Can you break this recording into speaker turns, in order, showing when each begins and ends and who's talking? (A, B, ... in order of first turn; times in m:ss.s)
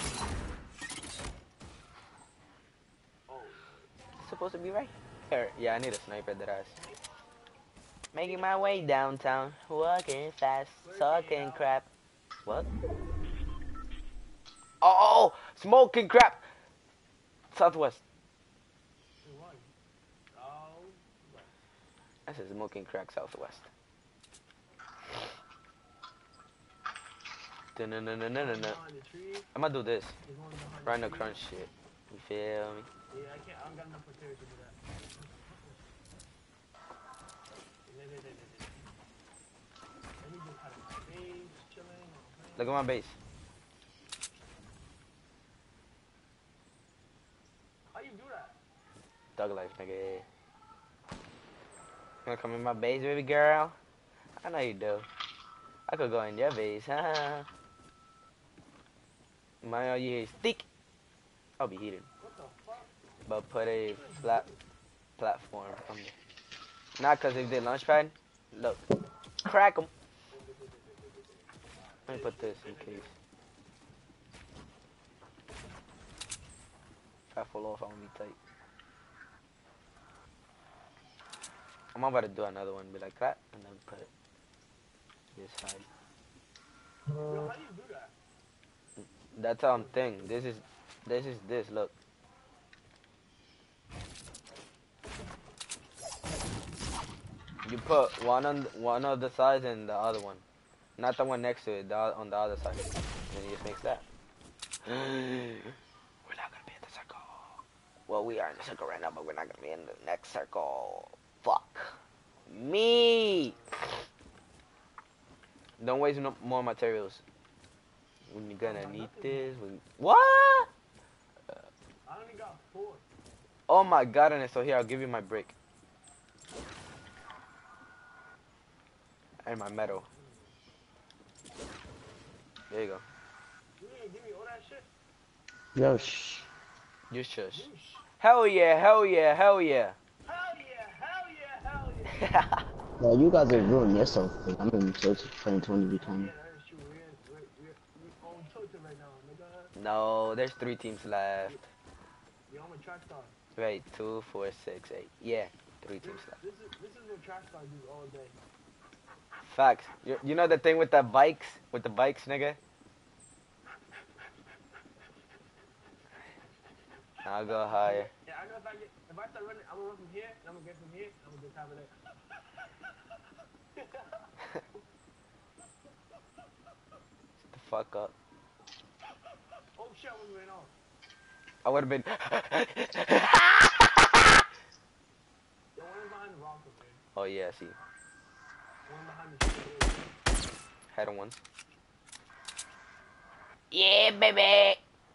0:03.3-0:03.9 A
0:04.2-0:06.8 B
0:06.8-0:07.0 A
0:08.1-0:11.9 B
0:08.2-0:08.8 A
0:10.8-0:11.8 A
0:14.8-0:16.4 B
0:17.5-0:18.0 B
0:19.2-0:19.7 A
0:20.3-0:21.5 A
0:22.2-0:23.7 B
0:27.7-0:28.8 B
0:28.3-0:29.5 A
0:29.5-0:30.2 B
0:30.2-0:31.3 A
0:30.8-0:32.9 B
0:33.1-0:35.9 A
0:37.8-0:38.9 A
0:40.2-0:42.8 A
0:42.6-0:43.2 B
0:47.9-0:48.6 A
0:49.4-0:50.2 B
0:52.2-0:53.8 B
0:54.4-0:55.1 B
0:55.9-0:57.5 B
0:59.6-1:00.6 B
1:01.6-1:02.1 B
1:02.2-1:03.0 A
1:03.3-1:04.4 B
1:03.8-1:04.6 A
1:05.2-1:06.1 B
1:07.0-1:08.8 B
1:09.4-1:09.9 B
1:10.3-1:13.1 A
1:12.1-1:13.1 B
1:17.3-1:18.4 B
1:21.9-1:24.1 B
1:25.3-1:25.9 B
1:27.3-1:28.1 A
1:29.0-1:31.9 B
1:29.8-1:30.4 A
1:37.6-1:40.4 B
1:41.0-1:44.0 B
1:44.8-1:52.0 B
1:52.4-1:53.8 A
1:52.5-1:53.5 B
1:55.8-1:57.2 B
1:58.3-2:00.7 B
1:58.6-1:59.6 A
2:02.1-2:03.0 A
2:03.7-2:05.5 B
2:09.4-2:10.0 B
2:10.0-2:10.6 A
2:12.7-2:13.0 B
2:13.8-2:14.9 A
2:15.7-2:16.4 C
2:17.1-2:17.7 B
2:17.5-2:18.0 A
2:18.2-2:20.0 B
2:20.2-2:22.2 A
2:22.2-2:22.6 B
2:23.0-2:26.3 C
2:26.0-2:29.7 A
2:29.8-2:31.6 B
2:32.5-2:33.4 A
2:33.6-2:36.4 B
2:36.0-2:38.4 A
2:39.4-2:42.6 B
2:47.2-2:48.1 B
2:47.6-2:53.2 A
2:53.7-2:54.8 A
2:57.4-2:58.1 B
2:59.8-3:00.7 A
3:01.6-3:04.4 B
3:05.7-3:07.0 A
3:07.1-3:07.8 B
3:08.9-3:10.1 A
3:10.9-3:11.4 B
3:13.7-3:14.8 B